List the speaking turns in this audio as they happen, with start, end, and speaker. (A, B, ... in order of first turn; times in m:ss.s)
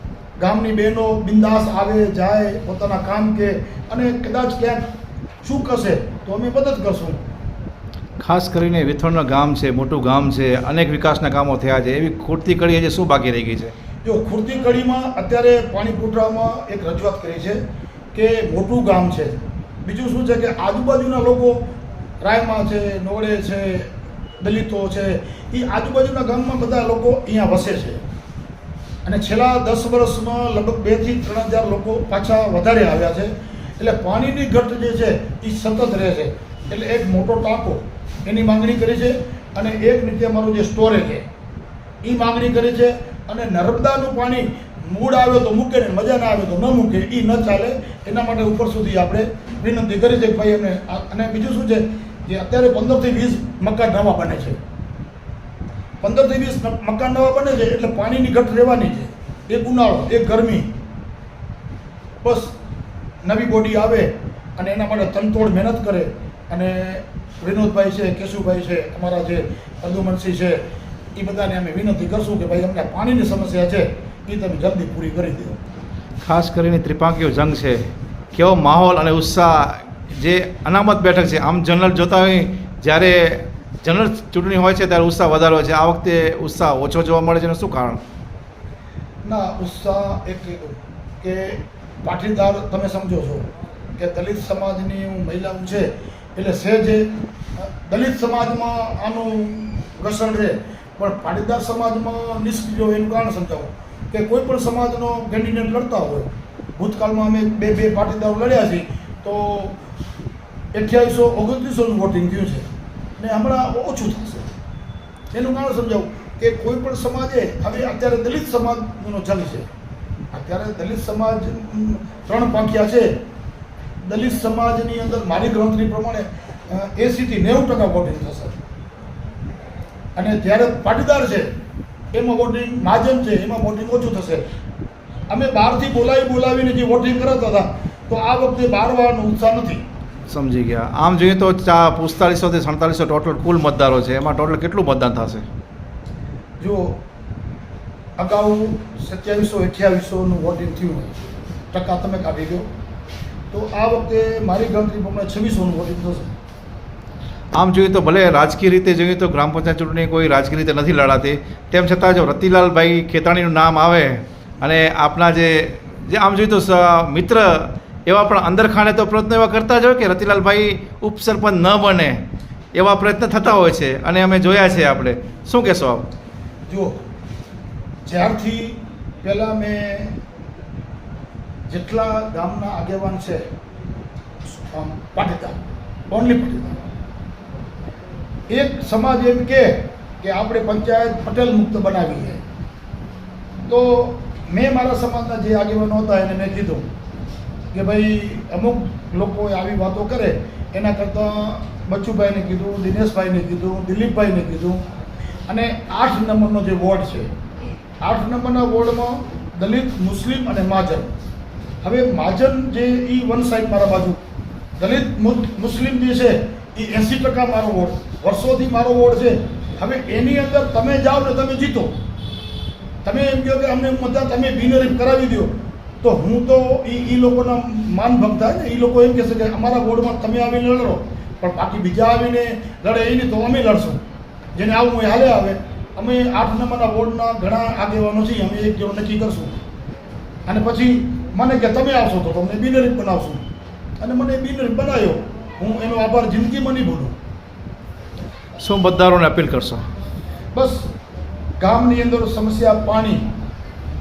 0:00.4-0:04.9 A
0:05.4-0:07.2 A
0:08.2-0:13.7 B
0:14.0-0:17.6 A
0:18.1-0:21.6 A
0:22.2-0:23.9 A
0:24.4-0:28.0 A
0:29.0-0:41.3 A
0:42.0-0:54.6 A
0:56.0-1:00.7 A
1:02.2-1:02.5 A
1:03.2-1:10.6 A
1:11.2-1:15.6 A
1:16.2-1:28.0 B
1:29.2-1:49.8 A
1:50.7-1:52.7 A
1:53.2-1:54.5 A
1:55.3-1:59.7 A
2:00.3-2:03.2 A
2:04.0-2:08.6 A
2:10.2-2:11.5 A
2:12.1-2:14.5 A
2:15.3-2:19.8 A
2:20.3-2:25.5 B
2:26.6-2:27.0 A
2:28.2-2:31.1 A
2:31.7-2:32.7 A
2:33.5-2:36.3 A
2:37.5-2:52.2 B
2:52.8-2:56.1 B
2:56.7-2:57.0 A
2:58.0-3:00.2 A
3:01.7-3:03.5 A
3:04.5-3:05.6 A
3:06.1-3:06.8 A
3:08.5-3:12.4 A
3:13.6-3:16.9 A
3:17.7-3:24.8 A
3:25.5-3:27.3 A
3:28.0-3:31.1 A
3:31.8-3:34.2 A
3:34.8-3:41.9 A
3:43.0-3:54.0 A
3:54.6-3:59.6 A
4:00.5-4:03.4 A
4:04.0-4:07.2 A
4:08.6-4:09.8 B
4:10.5-4:10.9 A
4:11.6-4:13.3 A